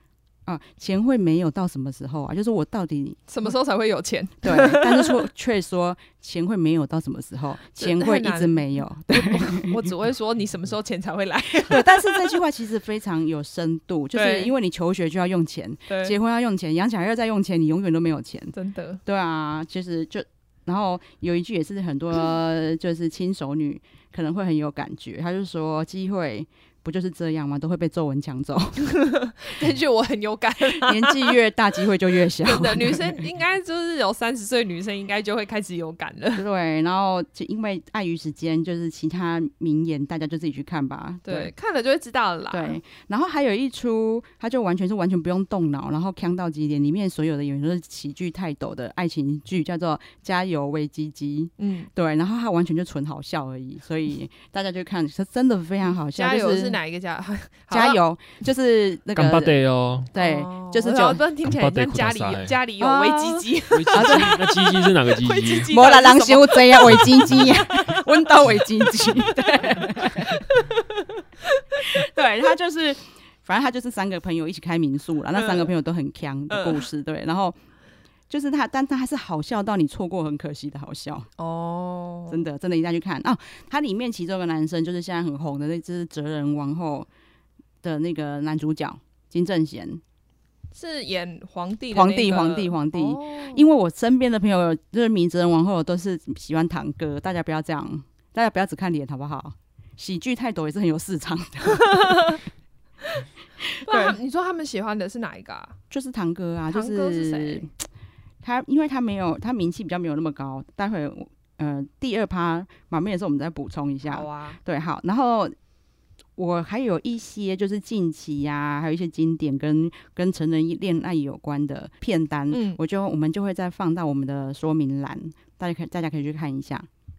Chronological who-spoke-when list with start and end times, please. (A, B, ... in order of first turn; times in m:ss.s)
0:00.4-0:03.5 A
0:03.3-0:05.2 B
0:04.4-0:09.8 A
0:07.8-0:12.4 B
0:11.7-0:18.5 A
0:14.1-0:14.5 B
0:15.9-0:16.2 B
0:18.5-0:19.0 B
0:19.0-0:28.9 A
0:28.8-0:31.3 B
0:30.6-0:33.2 A
0:32.4-0:36.4 B
0:36.4-0:41.5 A
0:41.2-0:42.8 B
0:42.5-0:56.8 A
0:51.6-0:51.9 B
0:56.1-0:58.0 B
0:57.7-0:59.6 A
0:59.2-1:00.1 C
1:00.1-1:01.2 A
1:00.1-1:08.3 B
1:01.4-1:02.6 C
1:02.8-1:04.6 A
1:03.7-1:05.7 C
1:05.7-1:10.5 A
1:06.9-1:07.5 C
1:08.9-1:10.8 B
1:11.8-1:17.6 A
1:15.4-1:15.7 B
1:16.5-1:16.8 B
1:18.3-1:21.3 A
1:21.4-1:22.4 B
1:22.3-1:27.1 A
1:27.8-1:30.0 A
1:30.7-1:33.6 B
1:31.9-1:42.4 A
1:41.7-1:42.4 B
1:43.8-1:44.2 A
1:43.8-1:45.8 B
1:45.9-1:47.7 A
1:46.7-1:47.7 B
1:48.4-1:55.5 A
1:54.1-1:54.6 B
1:56.4-2:06.9 A
2:02.5-2:02.8 B